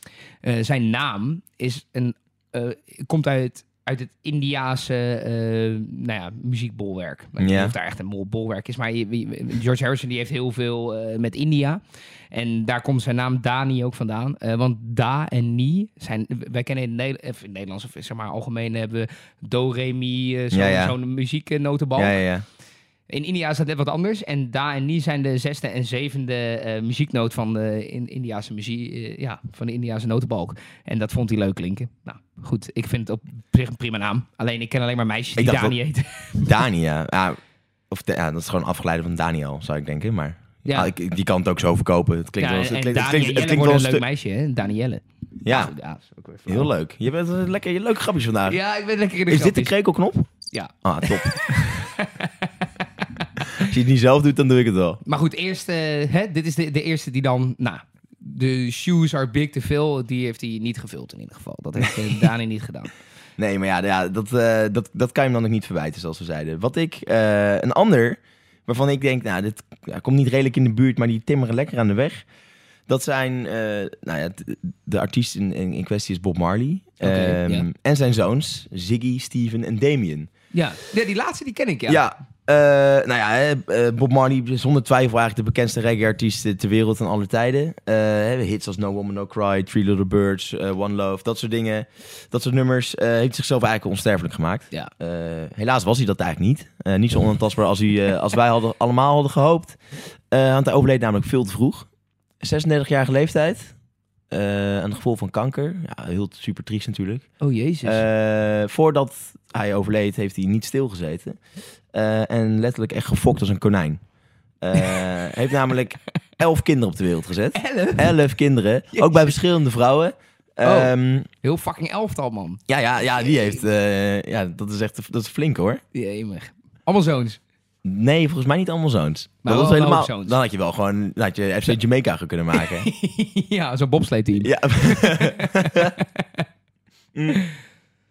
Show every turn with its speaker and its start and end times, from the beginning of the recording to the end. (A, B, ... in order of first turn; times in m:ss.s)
0:00.4-0:11.8 A
0:07.4-0:07.7 B
0:12.3-0:22.2 A
0:20.5-0:20.9 B
0:22.0-0:22.4 B
0:23.1-0:36.5 A
0:35.4-0:35.8 B
0:36.4-0:44.0 B
0:40.6-0:40.9 A
0:42.4-0:46.7 A
0:45.4-0:45.7 B
0:46.5-0:48.6 B
0:48.5-0:49.7 A
0:49.3-0:50.3 B
0:50.5-0:53.3 A
0:50.8-0:51.9 B
0:53.6-0:55.0 B
0:55.0-1:02.9 A
1:03.4-1:12.2 B
1:12.9-1:20.3 B
1:17.0-1:17.7 A
1:20.5-1:22.0 A
1:21.9-1:39.8 B
1:40.3-1:41.9 B
1:42.4-1:43.7 B
1:44.3-1:47.3 B
1:47.4-1:48.0 A
1:47.8-1:51.4 B
1:51.9-1:54.0 B
1:54.6-2:01.3 B
1:57.5-1:58.2 A
1:58.9-1:59.3 A
2:00.6-2:02.6 A
2:02.7-2:05.8 B
2:03.2-2:03.5 A
2:05.9-2:07.4 A
2:07.8-2:12.9 B
2:09.4-2:10.4 A
2:12.5-2:16.4 A
2:14.4-2:15.9 B